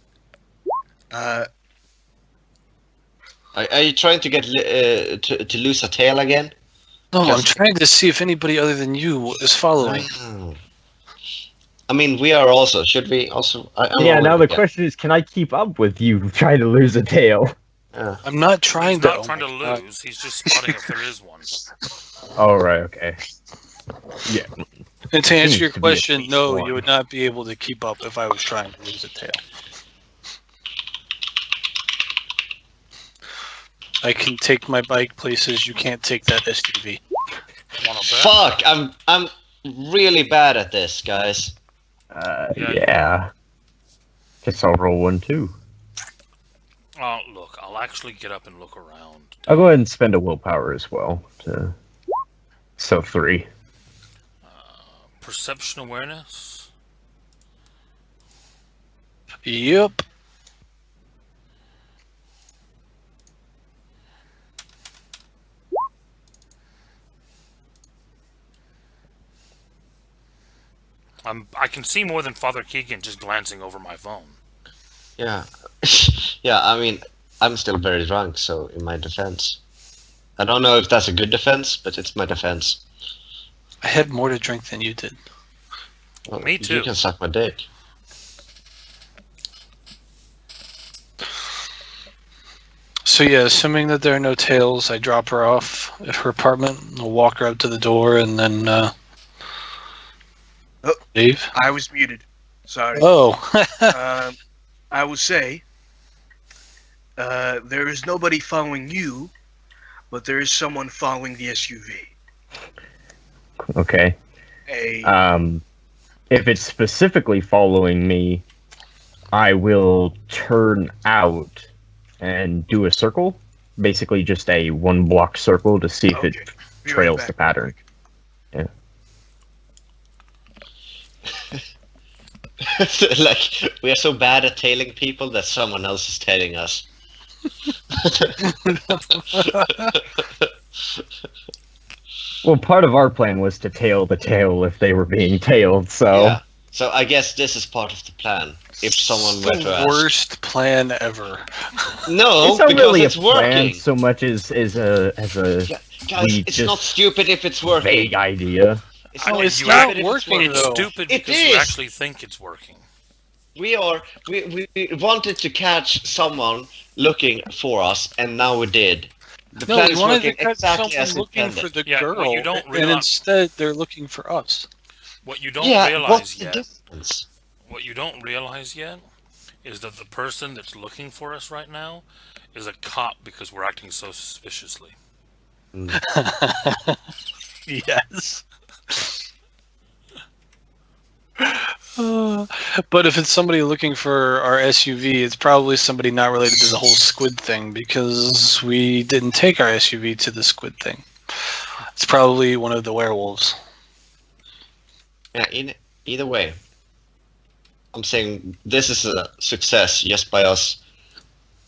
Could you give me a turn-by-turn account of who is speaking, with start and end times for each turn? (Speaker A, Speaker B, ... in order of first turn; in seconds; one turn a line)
Speaker A: 1.1-1.4
Speaker B: 3.5-6.5
Speaker C: 7.1-10.1
Speaker B: 7.2-7.5
Speaker B: 9.8-10.6
Speaker B: 11.9-14.6
Speaker D: 13.9-17.5
Speaker B: 17.9-18.2
Speaker C: 18.2-19.8
Speaker E: 18.8-21.5
Speaker D: 22.4-23.2
Speaker C: 25.1-29.4
Speaker D: 25.3-26.8
Speaker C: 34.0-37.0
Speaker E: 37.8-38.4
Speaker B: 38.0-41.5
Speaker D: 42.1-43.3
Speaker E: 42.5-43.0
Speaker D: 44.4-45.6
Speaker E: 47.0-49.4
Speaker D: 49.5-51.7
Speaker D: 52.8-53.5
Speaker E: 54.4-56.7
Speaker C: 59.4-60.0
Speaker E: 71.2-74.3
Speaker B: 75.2-79.6
Speaker B: 80.4-82.8
Speaker C: 83.8-85.2
Speaker B: 86.3-87.7
Speaker E: 86.3-86.9
Speaker C: 93.0-98.9
Speaker C: 101.1-101.5
Speaker A: 101.5-103.0
Speaker C: 102.9-104.0
Speaker A: 103.9-104.3
Speaker A: 104.9-105.6
Speaker A: 107.2-109.3
Speaker A: 110.1-112.1
Speaker D: 113.6-114.2
Speaker A: 114.7-115.1
Speaker D: 115.0-115.6
Speaker D: 116.3-118.4
Speaker D: 119.3-121.6
Speaker D: 122.2-127.8
Speaker A: 126.1-127.3
Speaker B: 132.6-136.9
Speaker B: 137.9-141.0
Speaker C: 138.4-139.9
Speaker D: 142.4-146.4
Speaker B: 146.1-150.1
Speaker C: 149.1-151.9
Speaker B: 152.1-153.8
Speaker D: 152.4-156.9
Speaker B: 155.7-158.1
Speaker D: 157.7-158.8
Speaker B: 159.1-161.8
Speaker E: 159.2-162.8
Speaker C: 159.3-160.9
Speaker B: 163.5-171.7
Speaker C: 169.6-174.7
Speaker E: 171.8-173.1
Speaker E: 175.2-176.7
Speaker B: 175.6-177.3
Speaker E: 177.7-179.0
Speaker E: 179.6-184.9
Speaker B: 185.7-186.0
Speaker C: 185.9-187.0
Speaker C: 187.7-188.4
Speaker C: 191.4-201.1
Speaker C: 201.8-203.5
Speaker B: 205.3-206.6
Speaker B: 207.9-210.8